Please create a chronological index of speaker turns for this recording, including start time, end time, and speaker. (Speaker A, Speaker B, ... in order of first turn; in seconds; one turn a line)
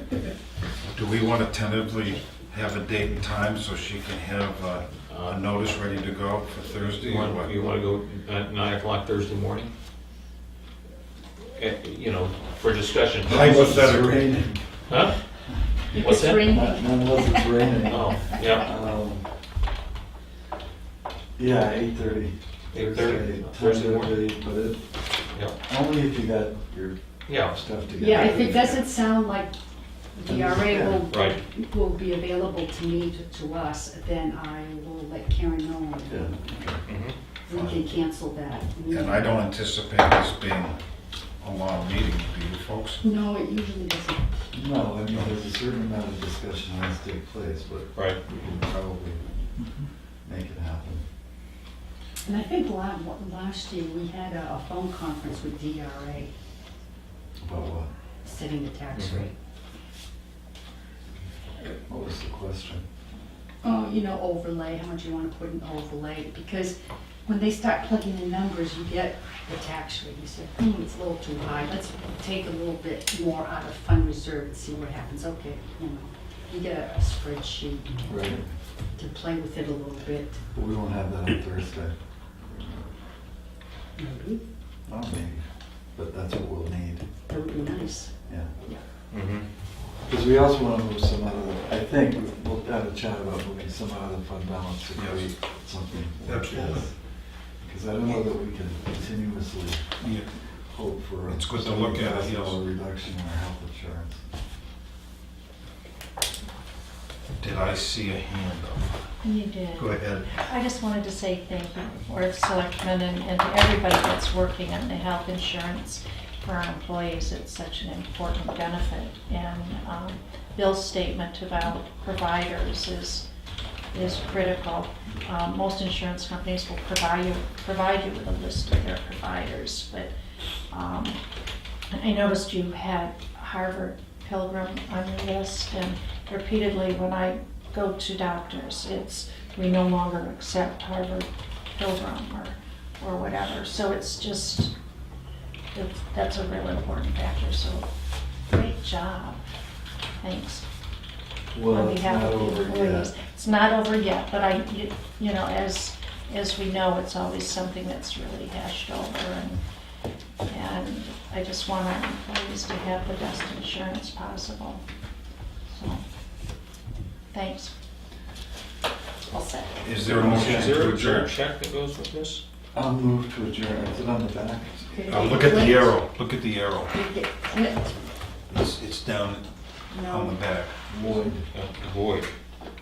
Speaker A: 0.8-7.5
Speaker B: 5.1-5.4
Speaker B: 7.0-9.7
Speaker B: 11.5-13.8
Speaker A: 13.2-14.4
Speaker C: 13.2-14.9
Speaker B: 14.9-15.2
Speaker C: 15.8-19.4
Speaker D: 15.9-17.7
Speaker B: 16.0-16.5
Speaker B: 17.9-18.7
Speaker C: 21.4-28.8
Speaker B: 22.7-24.3
Speaker B: 25.3-25.6
Speaker B: 27.3-27.6
Speaker D: 27.9-29.5
Speaker D: 30.1-39.5
Speaker C: 30.2-31.1
Speaker B: 31.1-31.4
Speaker C: 36.1-36.9
Speaker B: 36.9-37.2
Speaker A: 37.5-38.0
Speaker A: 38.8-43.0
Speaker D: 43.0-44.6
Speaker C: 44.5-49.5
Speaker C: 50.2-51.0
Speaker D: 52.2-56.3
Speaker C: 57.4-57.9
Speaker D: 58.2-59.3
Speaker B: 58.9-59.2
Speaker C: 61.9-62.9
Speaker D: 63.6-78.4
Speaker C: 78.0-78.5
Speaker D: 78.9-80.5
Speaker C: 80.5-82.0
Speaker D: 84.0-84.4
Speaker C: 84.9-87.1
Speaker D: 87.2-88.9
Speaker C: 88.3-88.5
Speaker B: 89.1-89.5
Speaker C: 90.0-104.2
Speaker A: 94.9-95.4
Speaker A: 96.2-96.9
Speaker A: 100.0-100.3
Speaker A: 101.3-102.6
Speaker A: 107.4-109.1
Speaker E: 109.2-123.2
Speaker A: 109.7-110.5
Speaker E: 123.9-130.1
Speaker E: 130.7-131.2
Speaker E: 131.9-144.7
Speaker E: 145.7-147.9
Speaker E: 148.5-149.4
Speaker E: 150.2-150.6
Speaker C: 151.5-153.1
Speaker E: 151.7-159.6
Speaker E: 160.4-164.8
Speaker E: 165.7-166.0
Speaker E: 167.3-167.7
Speaker D: 169.3-169.8
Speaker A: 169.8-171.3
Speaker C: 170.1-170.9
Speaker B: 170.1-172.4
Speaker C: 172.7-175.3
Speaker D: 174.9-176.1
Speaker A: 175.1-176.9
Speaker D: 176.9-178.1
Speaker A: 178.5-181.4
Speaker D: 179.9-180.4
Speaker C: 180.9-181.4
Speaker B: 181.5-182.3